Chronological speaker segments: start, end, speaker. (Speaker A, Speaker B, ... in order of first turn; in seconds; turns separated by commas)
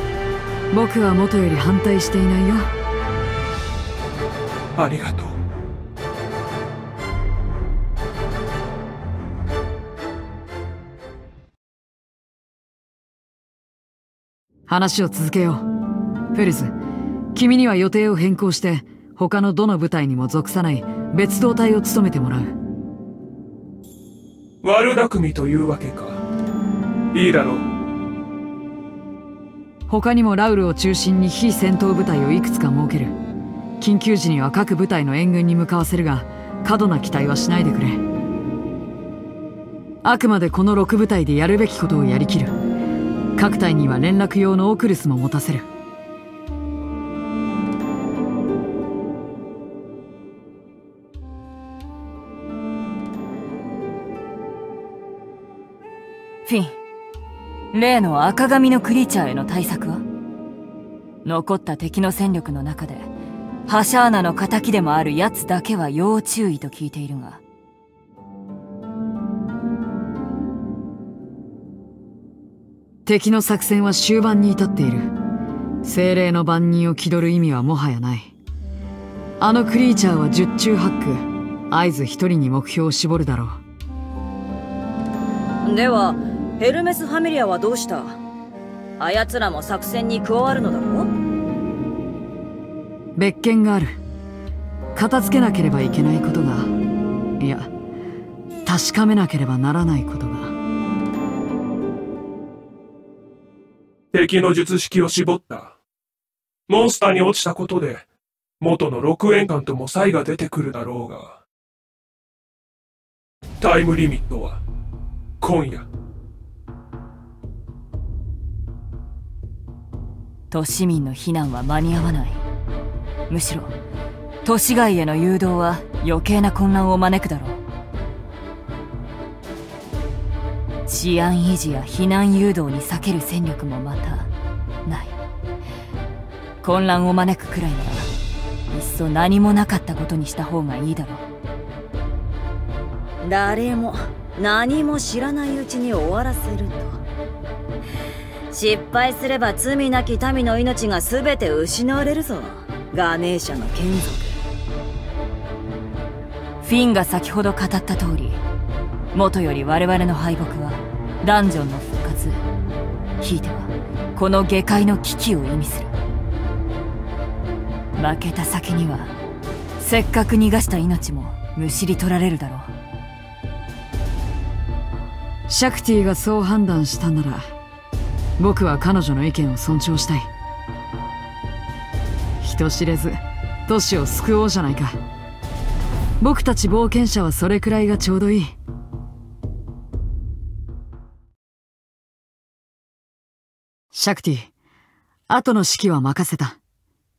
Speaker A: 0.7-2.7, Speaker B: 4.7-5.4, Speaker A: 14.7-15.7, Speaker A: 16.3-16.7, Speaker A: 17.3-22.5, Speaker B: 24.6-26.2, Speaker B: 27.1-27.7, Speaker A: 29.9-33.1, Speaker A: 33.8-38.0, Speaker A: 40.0-42.6, Speaker A: 43.4-45.7, Speaker C: 56.5-56.7, Speaker C: 57.7-60.0, Speaker C: 61.2-63.1, Speaker C: 63.7-67.4, Speaker A: 73.0-75.1, Speaker A: 75.8-78.3, Speaker A: 79.4-83.6, Speaker D: 85.6-88.2, Speaker D: 89.0-91.1, Speaker A: 93.2-94.0, Speaker A: 94.9-96.7, Speaker A: 97.4-97.7, Speaker A: 98.7-100.5, Speaker B: 104.1-105.8, Speaker B: 106.7-108.0, Speaker B: 108.6-111.4, Speaker B: 113.6-114.6, Speaker B: 115.4-115.9, Speaker C: 120.5-122.4, Speaker C: 123.3-123.7, Speaker C: 124.4-127.6, Speaker C: 130.9-134.3, Speaker C: 134.8-135.1, Speaker C: 136.6-138.1, Speaker C: 138.7-141.2, Speaker D: 143.2-147.0, Speaker D: 148.5-154.4, Speaker C: 156.6-158.4, Speaker C: 159.1-162.4, Speaker C: 163.2-165.9, Speaker C: 168.0-169.1, Speaker C: 169.8-172.7, Speaker A: 175.5-177.5, Speaker A: 178.4-180.3, Speaker A: 182.4-185.0, Speaker A: 186.2-188.6, Speaker A: 193.9-194.5, Speaker A: 195.3-196.6